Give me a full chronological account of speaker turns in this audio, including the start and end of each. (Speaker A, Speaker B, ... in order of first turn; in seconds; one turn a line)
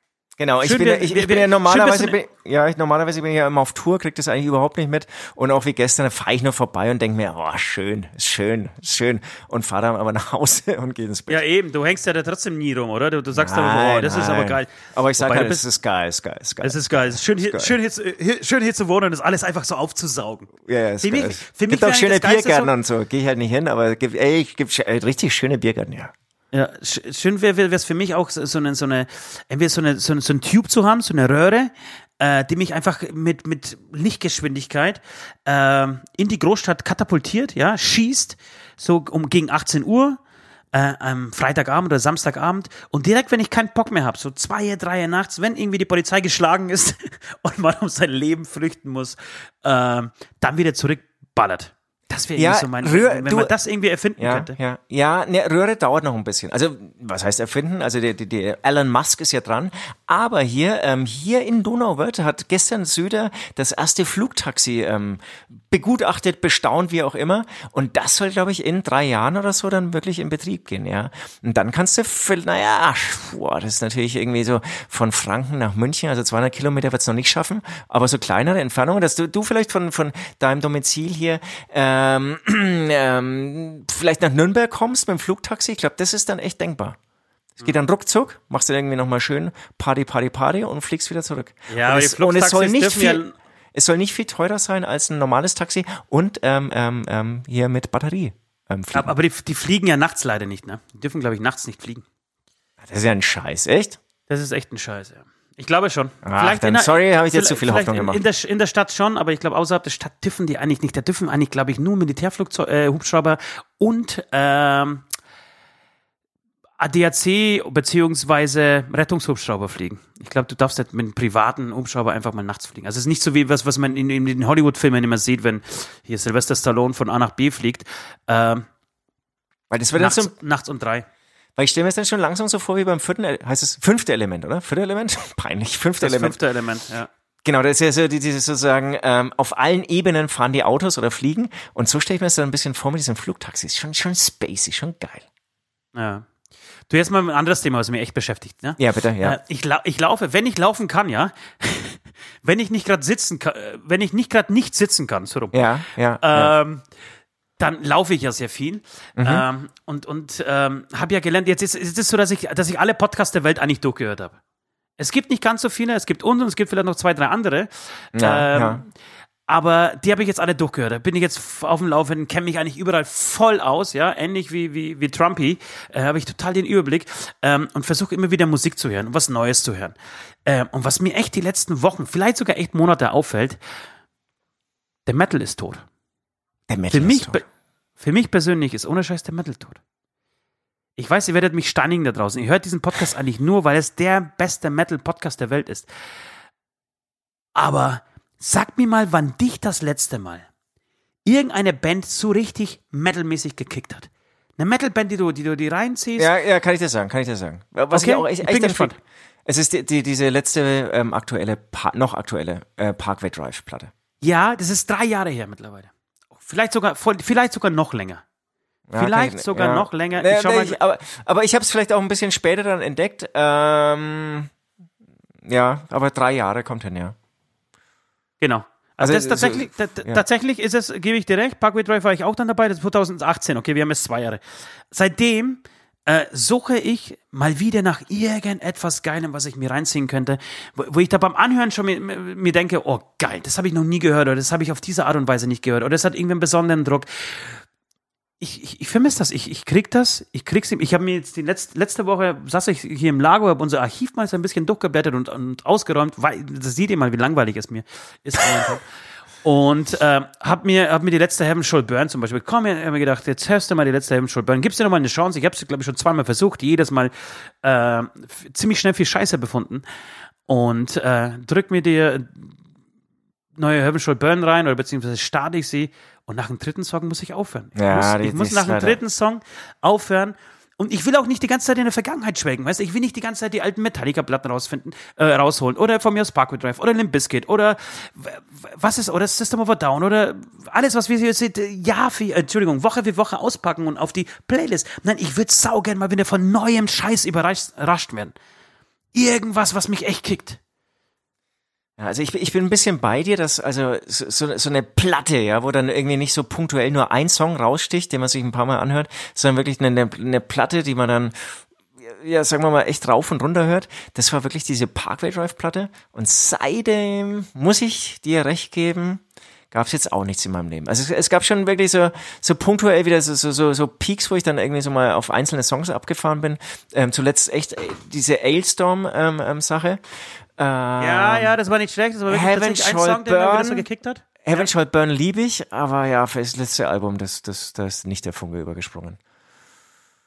Speaker A: 0.4-11.4
Speaker B: 0.6-2.2
Speaker B: 11.3-15.6
Speaker A: 13.3-17.7
Speaker B: 16.6-20.5
Speaker A: 20.6-26.1
Speaker B: 21.0-22.7
Speaker B: 26.5-40.2
Speaker B: 40.7-54.6
Speaker A: 52.4-53.5
Speaker A: 54.2-87.0
Speaker A: 87.6-93.2
Speaker B: 91.7-93.3
Speaker A: 93.7-99.2
Speaker B: 98.9-102.0
Speaker A: 102.8-104.0
Speaker B: 104.3-115.0
Speaker A: 106.2-108.2
Speaker B: 116.8-128.7
Speaker A: 129.7-130.3
Speaker B: 129.9-131.1
Speaker A: 131.6-136.4
Speaker B: 136.0-137.1
Speaker A: 137.4-145.3
Speaker B: 145.9-146.3
Speaker B: 146.9-155.6
Speaker A: 148.8-149.4
Speaker A: 155.5-156.5
Speaker B: 156.2-156.8
Speaker B: 157.6-164.4
Speaker A: 159.2-159.4
Speaker B: 165.0-168.9
Speaker A: 168.1-168.8
Speaker B: 169.5-183.6
Speaker B: 185.1-185.8
Speaker A: 186.7-187.4
Speaker B: 186.9-187.4
Speaker B: 188.0-189.8
Speaker B: 191.0-195.9
Speaker B: 197.6-200.5
Speaker B: 201.2-206.3
Speaker A: 206.2-213.9
Speaker B: 207.9-209.0
Speaker B: 214.2-218.2
Speaker A: 218.9-224.5
Speaker B: 218.9-220.8
Speaker A: 225.4-227.2
Speaker B: 228.4-247.6
Speaker A: 229.0-230.2
Speaker B: 248.4-258.8
Speaker B: 259.4-269.8
Speaker B: 270.5-272.5
Speaker B: 273.6-298.4
Speaker A: 277.8-279.0
Speaker B: 299.1-300.6
Speaker A: 302.0-330.0
Speaker A: 330.6-331.6
Speaker B: 331.0-334.7
Speaker A: 332.3-333.9
Speaker A: 334.4-339.2